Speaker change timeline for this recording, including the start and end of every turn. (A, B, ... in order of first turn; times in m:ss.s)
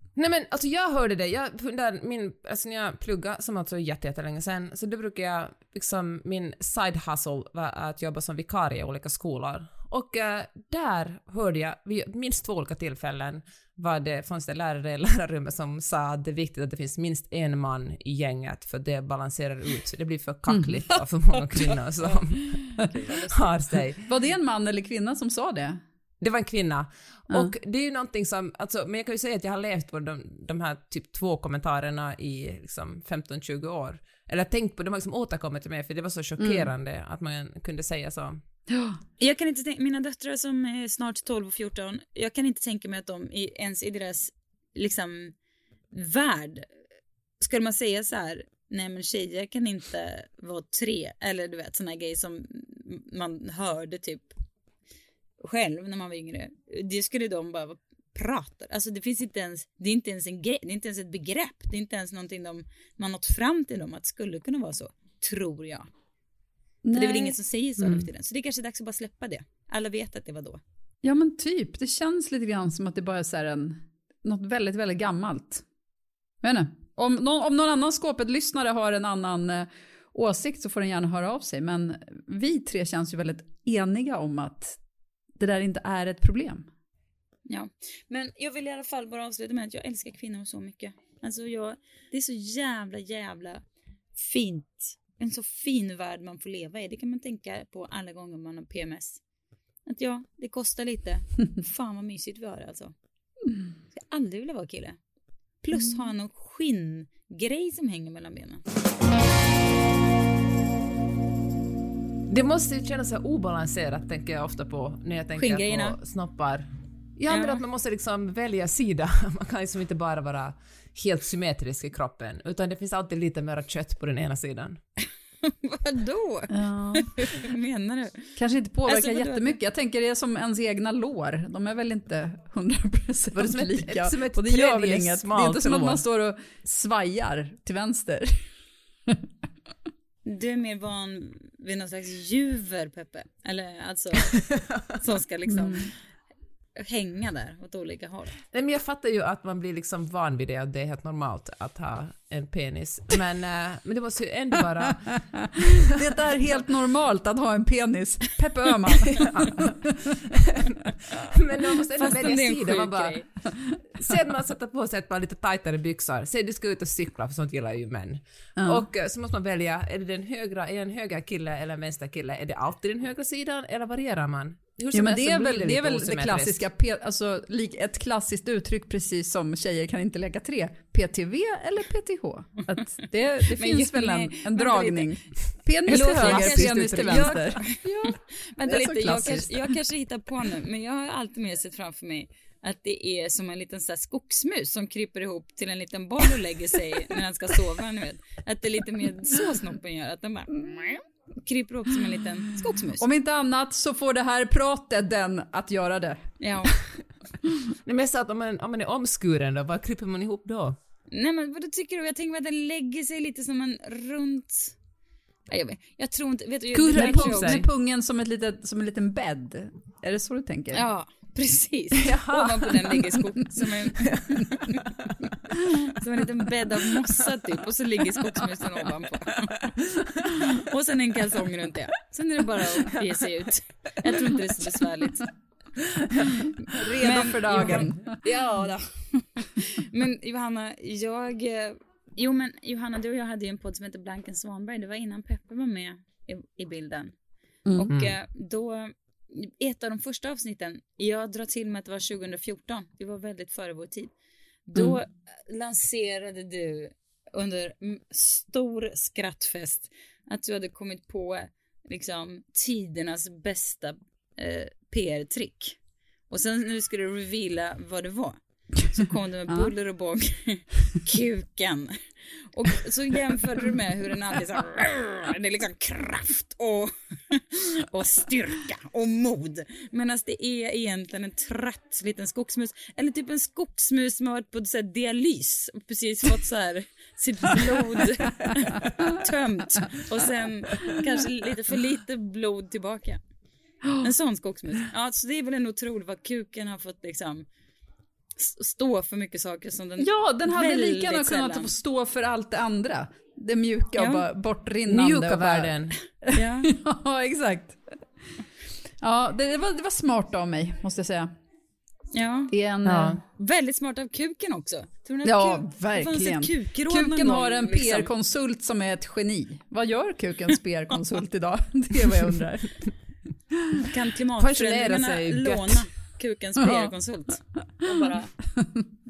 0:00.2-0:22.8 A
0:20.5-0:20.9 B
0:22.8-0:23.5 C
0:23.3-0:24.0 A
0:24.0-0:25.8 B
0:26.2-0:38.4 A
0:36.4-0:36.7 B
0:38.7-0:39.0 B
0:39.2-0:45.3 C
0:45.9-0:46.7 C
0:47.4-0:54.3 C
0:55.4-1:05.9 C
1:06.8-1:07.4 B
1:06.9-1:10.6 C
1:11.0-1:15.6 B
1:16.4-1:24.8 B
1:25.4-1:26.7 B
1:27.5-1:33.6 C
1:34.1-1:39.2 C
1:39.8-1:42.9 C
1:43.9-1:45.0 C
1:45.6-1:48.6 C
1:52.3-2:04.8 A
1:55.4-1:56.0 C
1:57.3-1:57.6 C
2:05.4-2:08.3 C
2:06.5-2:07.3 B
2:08.4-2:18.5 B
2:08.9-2:09.6 C
2:13.3-2:16.0 A
2:20.2-2:24.4 C
2:24.3-2:24.8 A
2:25.0-2:25.9 C
2:25.5-2:25.9 B
2:26.8-2:28.3 C
2:28.5-2:35.9 A
2:34.8-2:40.2 B
2:39.1-2:43.4 A
2:42.0-2:43.3 C
2:44.0-2:56.6 A
2:48.6-2:48.9 B
2:54.9-3:07.7 B
3:03.5-3:05.1 C
3:05.9-3:07.4 A
3:05.9-3:23.0 C
3:08.7-3:09.5 B
3:23.0-3:26.3 B
3:26.4-3:26.7 C
3:27.7-3:30.8 A
3:31.1-3:34.8 C
3:35.5-3:37.6 C
3:36.7-3:37.7 A
3:36.9-3:40.8 B
3:40.7-3:45.0 C
3:42.0-3:42.7 A
3:44.0-3:44.4 A
3:45.8-3:49.6 C
3:49.8-3:50.4 A
3:50.4-3:55.3 C
3:55.9-3:56.3 A
3:56.4-3:58.2 B
3:57.0-4:07.1 C
4:07.6-4:07.9 B
4:07.7-4:14.1 C
4:14.7-4:25.8 C
4:26.3-4:53.2 C
4:54.0-4:57.5 C
4:58.4-5:01.7 C
5:00.0-5:07.9 B
5:04.0-5:04.2 C
5:04.9-5:06.0 A
5:06.3-5:06.7 C
5:09.0-5:11.3 B
5:12.1-5:12.5 C
5:12.5-5:13.2 B
5:12.8-5:13.2 A
5:13.3-5:18.1 C
5:15.2-5:22.8 B
5:23.8-5:28.3 C
5:24.4-5:25.9 A
5:26.6-5:26.9 B
5:28.6-5:28.8 B